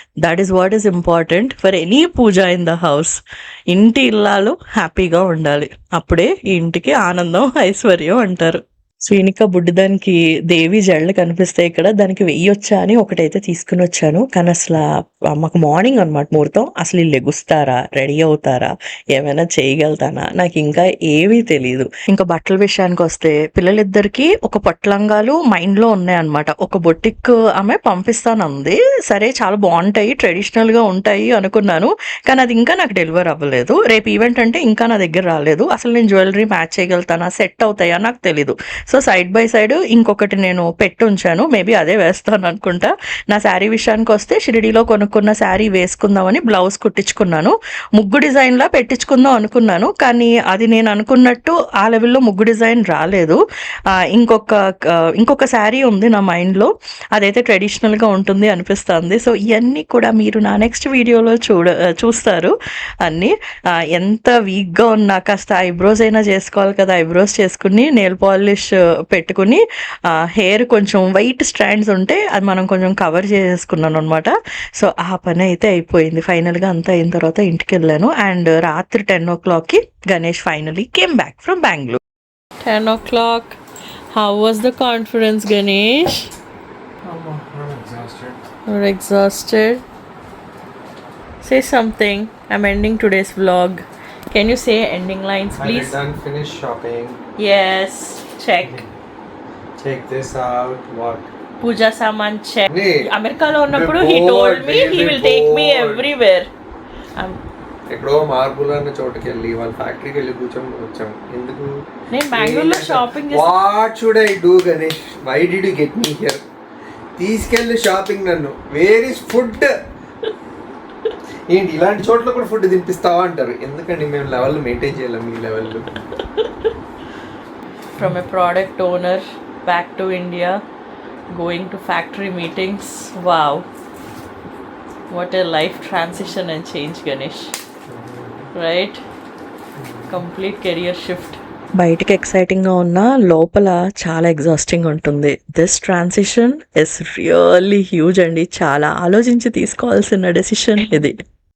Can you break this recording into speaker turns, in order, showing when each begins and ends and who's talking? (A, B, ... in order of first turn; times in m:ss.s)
0:00.2-0:53.4 A
0:54.0-1:03.3 A
1:03.9-1:09.6 A
1:10.3-1:22.0 A
1:22.6-1:23.6 A
1:24.1-1:26.3 A
1:27.0-1:28.4 B
1:28.7-1:29.8 A
1:31.4-1:36.0 A
1:35.5-1:37.2 B
1:37.4-1:38.8 A
1:38.6-1:38.9 B
1:39.8-1:41.3 B
1:41.6-1:46.5 A
1:42.7-1:43.0 B
1:43.7-1:46.0 B
1:47.9-1:51.7 B
1:52.1-1:53.5 A
1:52.3-1:56.4 B
1:57.2-1:59.7 B
2:01.5-2:05.8 B
2:06.2-2:06.7 A
2:08.0-2:10.6 A
2:11.3-2:13.6 A
2:15.1-2:17.5 A
2:17.9-2:18.4 B
2:18.5-2:19.0 A
2:19.8-2:20.1 B
2:20.1-2:31.1 A